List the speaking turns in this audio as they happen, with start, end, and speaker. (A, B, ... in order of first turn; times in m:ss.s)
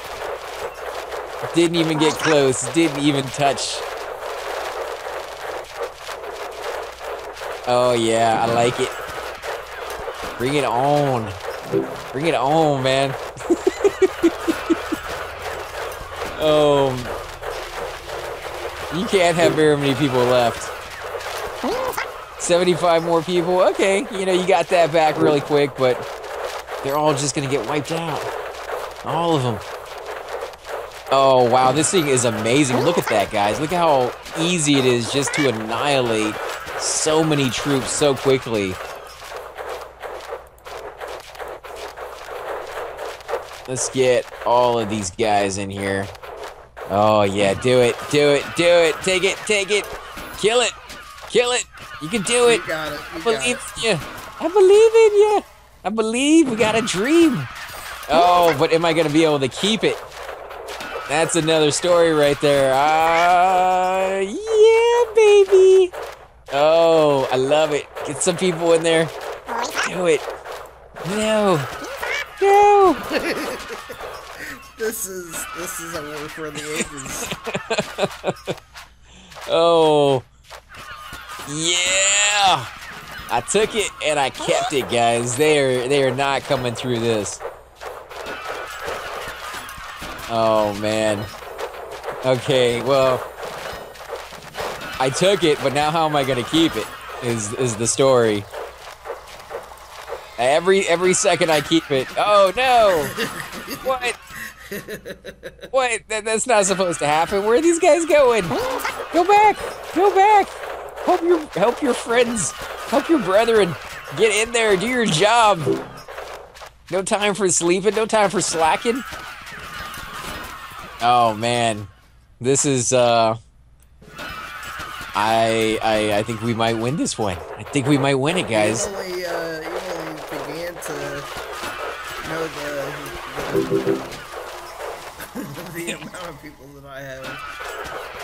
0:01.5-0:03.8 A
0:07.7-0:09.0 A
0:10.4-0:11.4 A
0:12.1-0:14.7 A
0:16.3-0:17.2 A
0:18.9-0:20.7 A
0:22.4-0:26.0 A
0:26.8-0:28.3 A
0:29.0-0:29.6 A
0:31.1-0:38.8 A
0:43.7-0:46.1 A
0:46.9-0:50.7 A
0:51.3-0:52.6 A
0:52.4-0:53.8 B
0:53.2-0:57.5 A
0:58.1-1:00.0 A
1:01.1-1:05.9 A
1:06.5-1:09.1 A
1:09.7-1:10.2 A
1:11.0-1:11.7 A
1:12.4-1:13.0 A
1:13.1-1:13.8 B
1:14.4-1:17.3 B
1:16.8-1:18.5 A
1:19.5-1:20.2 A
1:21.4-1:22.7 A
1:23.3-1:27.4 A
1:30.3-1:31.3 A
1:32.2-1:33.2 A
1:35.0-1:38.5 A
1:40.4-1:43.1 A
1:42.9-1:45.7 B
1:43.8-1:44.2 A
1:45.7-1:48.6 A
1:49.1-1:55.7 A
1:56.9-1:59.0 A
2:01.0-2:03.4 A
2:05.1-2:08.9 A
2:08.5-2:11.3 B
2:12.2-2:14.1 B
2:15.3-2:17.4 B